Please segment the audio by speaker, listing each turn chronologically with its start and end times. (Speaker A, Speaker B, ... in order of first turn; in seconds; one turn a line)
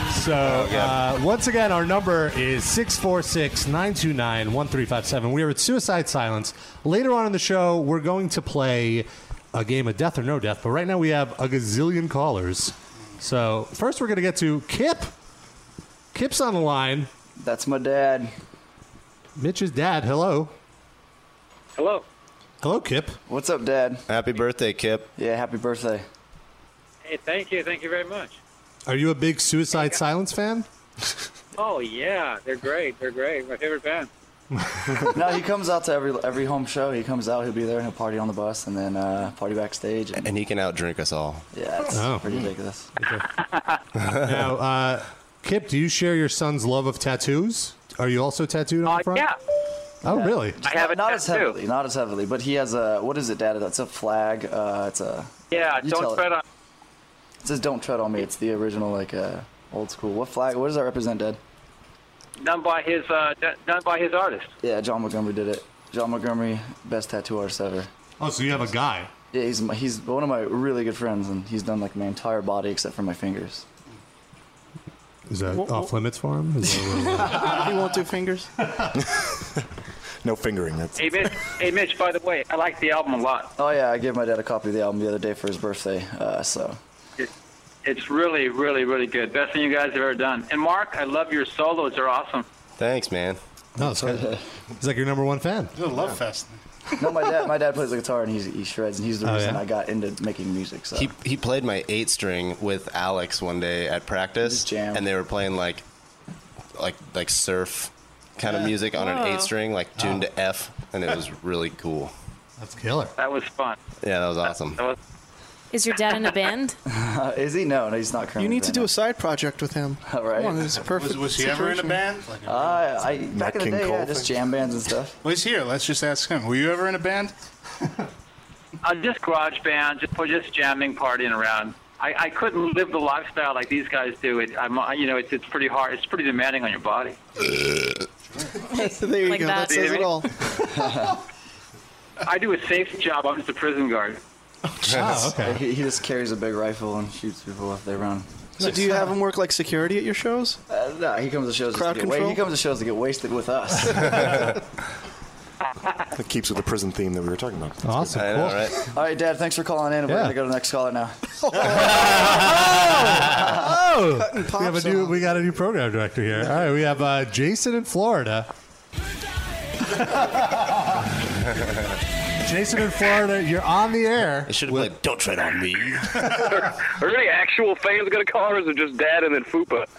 Speaker A: 0.1-15.1
Speaker B: 0.4-1.0
Speaker A: 16.1-17.1
Speaker C: 17.4-18.3
Speaker A: 19.4-20.5
Speaker D: 21.8-22.1
Speaker A: 22.6-23.2
Speaker C: 23.3-24.0
Speaker B: 24.1-25.1
Speaker C: 25.2-26.1
Speaker D: 27.0-28.4
Speaker A: 28.9-30.7
Speaker D: 29.7-30.0
Speaker D: 31.6-34.1
Speaker C: 35.1-40.3
Speaker B: 40.2-41.4
Speaker C: 41.5-42.9
Speaker A: 41.9-42.4
Speaker A: 43.0-43.3
Speaker D: 43.3-43.8
Speaker A: 44.2-49.3
Speaker D: 48.9-49.4
Speaker A: 50.0-50.6
Speaker C: 50.1-56.3
Speaker D: 50.6-51.6
Speaker D: 55.5-56.4
Speaker C: 57.4-61.4
Speaker D: 62.4-64.5
Speaker C: 64.6-67.9
Speaker A: 68.2-69.1
Speaker C: 69.3-73.7
Speaker A: 75.3-77.7
Speaker E: 75.5-75.9
Speaker E: 77.3-78.5
Speaker F: 80.2-81.3
Speaker D: 81.0-83.5
Speaker C: 83.6-86.8
Speaker D: 87.8-92.5
Speaker B: 92.8-93.4
Speaker A: 93.8-95.8
Speaker C: 94.1-94.4
Speaker G: 95.8-96.6
Speaker C: 97.0-101.1
Speaker A: 99.2-99.6
Speaker B: 101.0-105.8
Speaker C: 104.4-105.0
Speaker B: 106.8-112.1
Speaker H: 108.9-109.5
Speaker A: 110.0-110.3
Speaker A: 112.6-113.1
Speaker D: 113.2-113.8
Speaker B: 114.0-114.8
Speaker H: 115.7-116.8
Speaker C: 116.9-118.9
Speaker E: 118.4-122.0
Speaker C: 120.0-120.7
Speaker G: 120.9-122.8
Speaker C: 122.5-125.2
Speaker F: 123.3-124.4
Speaker G: 125.2-127.3
Speaker D: 128.8-137.2
Speaker H: 138.7-140.2
Speaker E: 138.7-140.3
Speaker D: 139.7-140.0
Speaker C: 140.7-141.2
Speaker D: 142.2-144.2
Speaker A: 144.8-145.6
Speaker C: 145.4-148.3
Speaker E: 148.6-150.6
Speaker C: 150.7-154.3
Speaker E: 151.7-152.4
Speaker B: 154.1-154.5
Speaker F: 156.1-158.5
Speaker A: 157.8-158.7
Speaker B: 158.1-158.8
Speaker C: 158.9-161.2
Speaker A: 160.1-160.4
Speaker E: 161.6-163.0
Speaker B: 162.0-162.3
Speaker A: 162.9-168.5
Speaker E: 164.2-165.2
Speaker A: 172.4-174.9
Speaker B: 174.5-176.4
Speaker I: 176.3-179.9